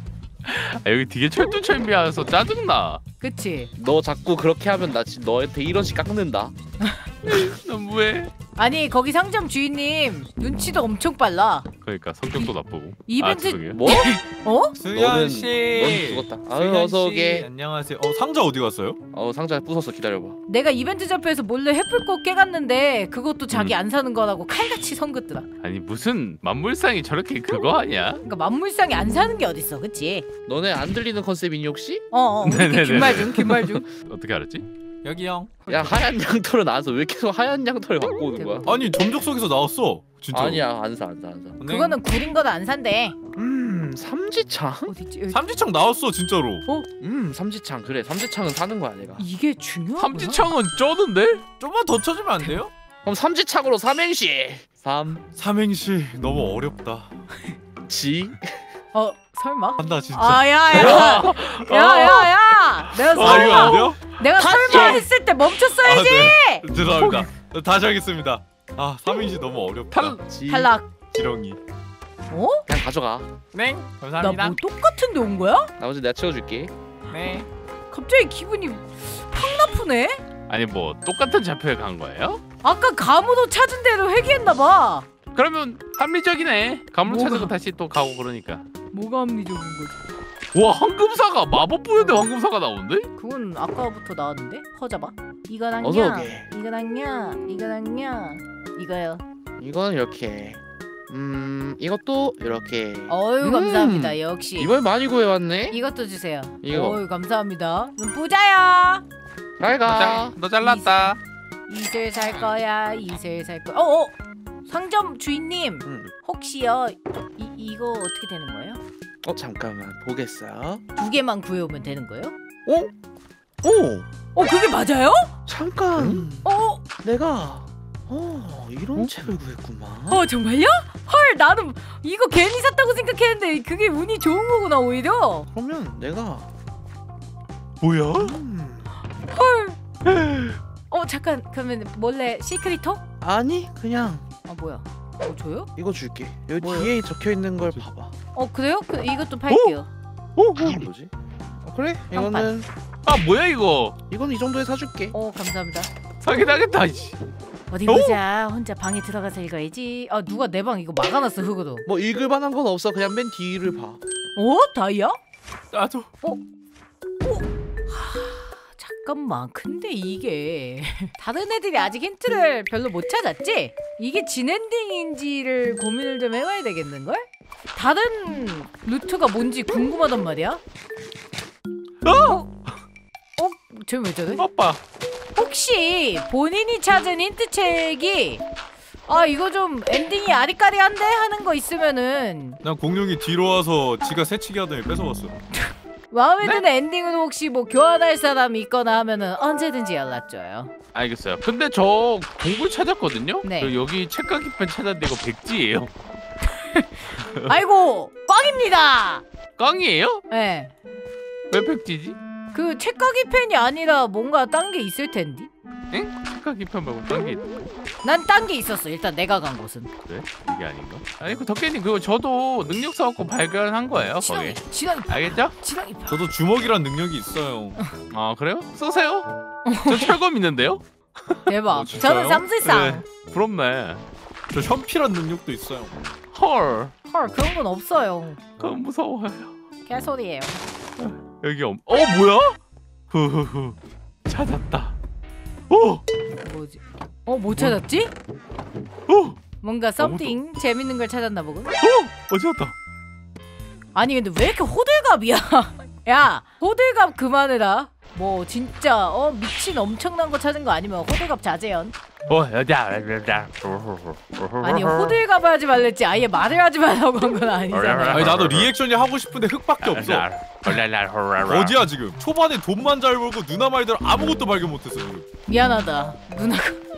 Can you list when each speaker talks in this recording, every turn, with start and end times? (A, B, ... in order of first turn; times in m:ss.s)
0:00.4-0:03.0 A
0:03.2-0:03.7 B
0:03.8-0:06.6 C
0:06.8-0:07.1 B
0:07.2-0:08.3 A
0:08.6-0:11.7 B
0:11.8-0:13.8 A
0:13.1-0:14.8 B
0:13.7-0:14.1 C
0:14.8-0:19.0 D
0:14.9-0:17.5 C
0:19.1-0:20.4 C
0:20.5-0:25.5 B
0:25.6-0:28.2 A
0:28.2-0:30.3 B
0:30.5-0:32.1 C
0:32.1-0:33.9 B
0:32.4-0:34.7 A
0:35.0-0:35.9 D
0:35.7-0:38.7 C
0:38.4-0:38.7 B
0:38.6-0:40.6 D
0:40.3-0:41.6 C
0:41.6-0:42.0 D
0:41.6-0:43.2 B
0:43.4-0:44.9 C
0:44.9-0:45.4 B
0:45.3-0:46.6 D
0:47.0-0:49.3 C
0:49.2-0:50.5 B
0:50.0-0:51.4 A
0:51.6-0:52.7 D
0:53.0-0:55.2 C
0:55.4-0:57.2 D
0:57.9-0:58.6 C
0:58.9-1:06.7 B
0:59.8-1:01.2 D
1:00.7-1:05.1 A
1:03.1-1:04.0 D
1:05.8-1:10.2 D
1:07.0-1:07.3 A
1:09.9-1:10.2 A
1:10.2-1:10.7 C
1:10.5-1:10.9 B
1:11.1-1:11.6 D
1:12.3-1:12.7 B
1:12.7-1:13.3 C
1:13.5-1:14.6 D
1:14.2-1:15.7 B
1:15.8-1:16.7 C
1:17.1-1:17.5 D
1:17.9-1:20.2 B
1:20.5-1:22.4 A
1:22.6-1:25.1 B
1:25.3-1:28.7 A
1:27.1-1:27.5 B
1:28.9-1:30.0 B
1:30.5-1:33.1 A
1:32.0-1:32.3 B
1:33.2-1:39.2 B
1:35.8-1:36.5 C
1:39.6-1:45.8 C
1:43.1-1:44.7 B
1:45.7-1:49.0 B
1:46.6-1:47.0 C
1:49.6-1:50.4 C
1:49.8-1:51.2 A
1:50.6-1:51.2 B
1:51.7-1:54.1 B
1:54.7-1:58.8 B
1:55.8-1:56.1 C
1:59.2-2:00.8 C
2:01.0-2:02.3 B
2:02.7-2:02.9 C
2:03.6-2:04.1 C
2:04.4-2:05.3 B
2:05.5-2:06.5 C
2:06.4-2:06.8 B
2:07.0-2:10.3 C
2:10.1-2:15.5 B
2:15.5-2:16.5 C
2:17.8-2:18.4 A
2:18.1-2:18.9 C
2:19.3-2:19.8 B
2:20.1-2:20.6 A
2:20.9-2:23.0 B
2:23.2-2:24.3 C
2:24.5-2:25.7 B
2:25.8-2:28.1 C
2:26.6-2:26.9 B
2:28.3-2:29.9 B
2:29.5-2:29.8 A
2:30.4-2:30.8 A
2:30.6-2:31.1 C
2:31.6-2:32.7 C
2:32.1-2:32.5 B
2:33.1-2:34.0 A
2:34.1-2:35.2 C
2:35.1-2:35.9 B
2:36.2-2:37.2 A
2:37.7-2:41.9 B
2:37.9-2:38.2 A
2:41.9-2:44.0 C
2:44.4-2:45.2 B
2:45.7-2:46.1 D
2:47.2-2:57.2 B
2:57.8-3:00.6 B
3:02.0-3:02.4 A
3:02.2-3:02.5 B
3:03.4-3:04.4 B
3:04.4-3:04.8 A
3:05.4-3:08.4 B
3:09.1-3:12.6 B
3:12.6-3:15.4 D
3:15.6-3:20.7 B
3:20.9-3:25.9 A
3:23.4-3:23.8 B
3:26.6-3:29.2 B
3:29.6-3:30.2 A
3:30.3-3:30.7 B
3:31.5-3:32.2 A
3:32.5-3:35.5 B
3:35.9-3:37.6 A
3:38.0-3:39.9 B
3:40.1-3:45.6 A
3:44.2-3:46.2 B
3:46.1-3:47.8 D
3:48.1-3:49.3 A
3:49.7-3:50.1 B
3:49.8-3:51.4 A
3:51.5-3:53.0 B
3:51.7-3:52.5 D
3:52.6-3:54.0 A
3:54.5-3:56.0 D
3:56.3-3:56.9 A
3:57.1-3:58.4 B
3:58.6-3:59.5 A
3:59.9-4:00.6 B
4:01.0-4:02.6 A
4:03.1-4:03.8 A
4:04.3-4:05.0 A
4:05.7-4:06.0 A
4:06.4-4:08.1 B
4:09.1-4:09.4 A
4:09.6-4:11.8 B
4:10.0-4:10.4 A
4:11.8-4:12.7 A
4:14.0-4:22.0 B
4:22.3-4:25.2 A
4:24.6-4:28.3 B
4:27.7-4:28.7 A
4:28.1-4:30.3 D
4:29.8-4:31.8 A
4:31.5-4:35.3 D
4:35.5-4:36.8 B